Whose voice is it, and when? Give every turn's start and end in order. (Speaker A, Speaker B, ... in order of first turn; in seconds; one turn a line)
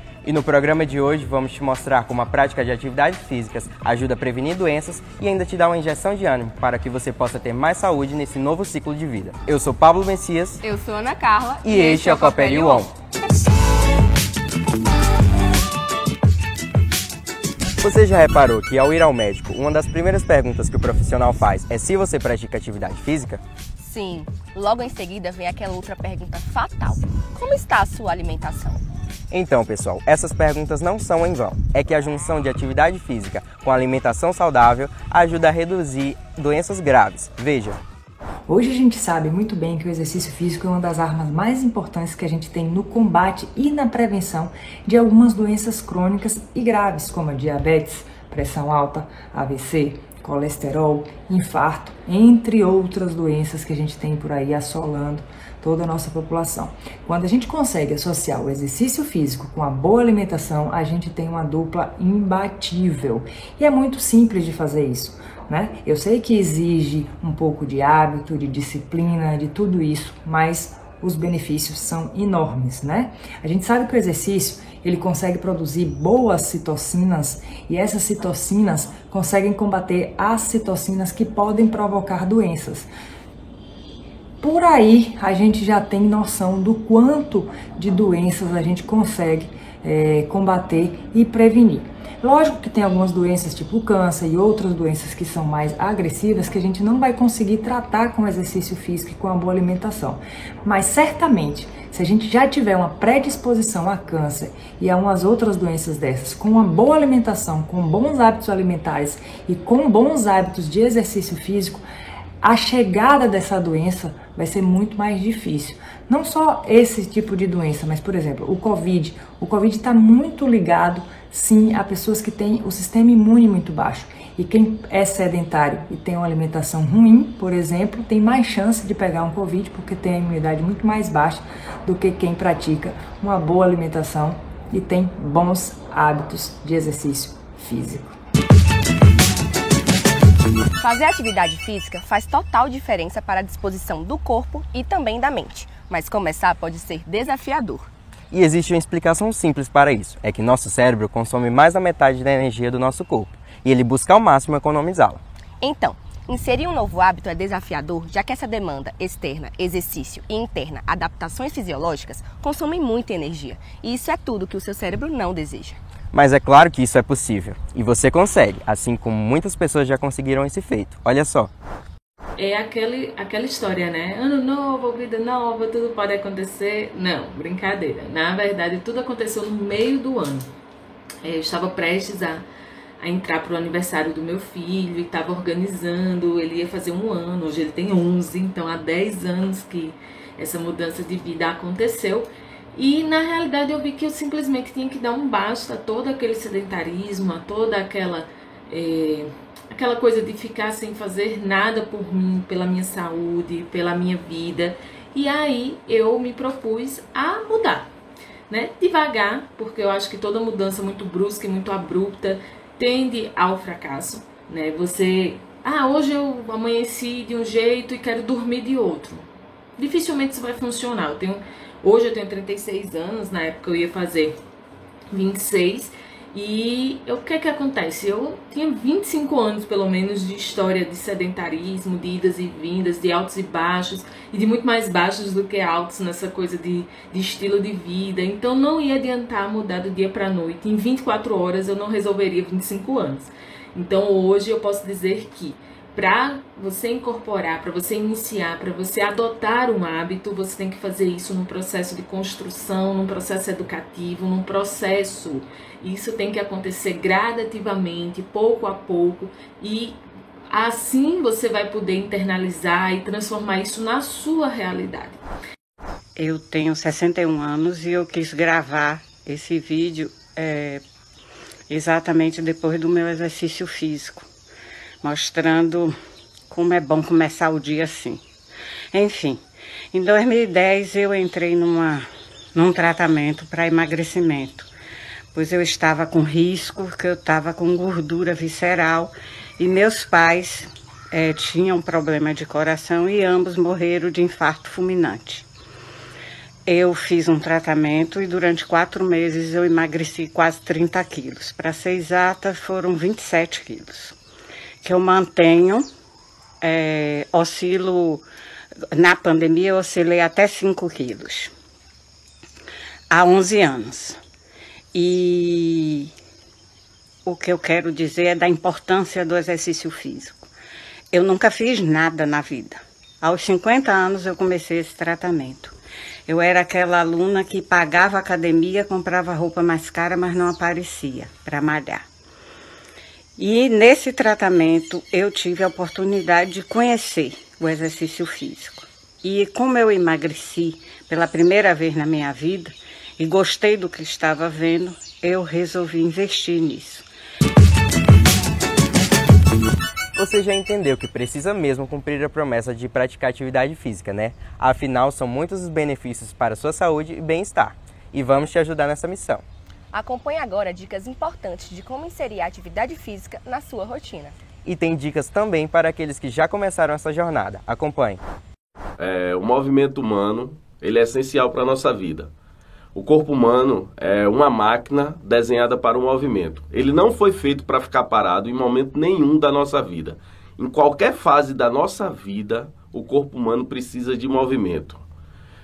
Speaker A: 0.2-10.6
Speaker B: 10.6-12.9
Speaker A: 11.6-12.9
Speaker A: 17.8-23.4
Speaker B: 23.8-28.8
Speaker A: 29.3-37.8
Speaker C: 38.5-82.9
Speaker C: 84.4-111.8
Speaker C: 112.4-138.2
Speaker B: 140.8-147.9
Speaker A: 148.3-155.2
Speaker B: 155.6-165.8
Speaker A: 166.1-171.5
Speaker D: 172.4-180.4
Speaker D: 181.2-182.4
Speaker D: 183.0-207.9
Speaker D: 208.5-219.2
Speaker D: 219.8-224.4
Speaker D: 225.1-260.0
Speaker D: 260.5-265.2
Speaker E: 266.1-270.8
Speaker E: 271.7-274.2
Speaker E: 275.0-275.9
Speaker E: 276.5-278.2
Speaker E: 278.9-284.7
Speaker E: 285.3-295.4
Speaker E: 296.6-304.1
Speaker E: 304.8-305.9
Speaker E: 306.6-308.2
Speaker E: 308.9-311.5
Speaker E: 313.1-314.2
Speaker E: 314.9-316.1
Speaker E: 317.2-320.5
Speaker E: 321.1-332.1
Speaker E: 333.4-347.1
Speaker A: 350.1-359.4
Speaker B: 359.9-364.4
Speaker A: 364.6-368.2
Speaker F: 369.0-372.3
Speaker F: 372.9-385.0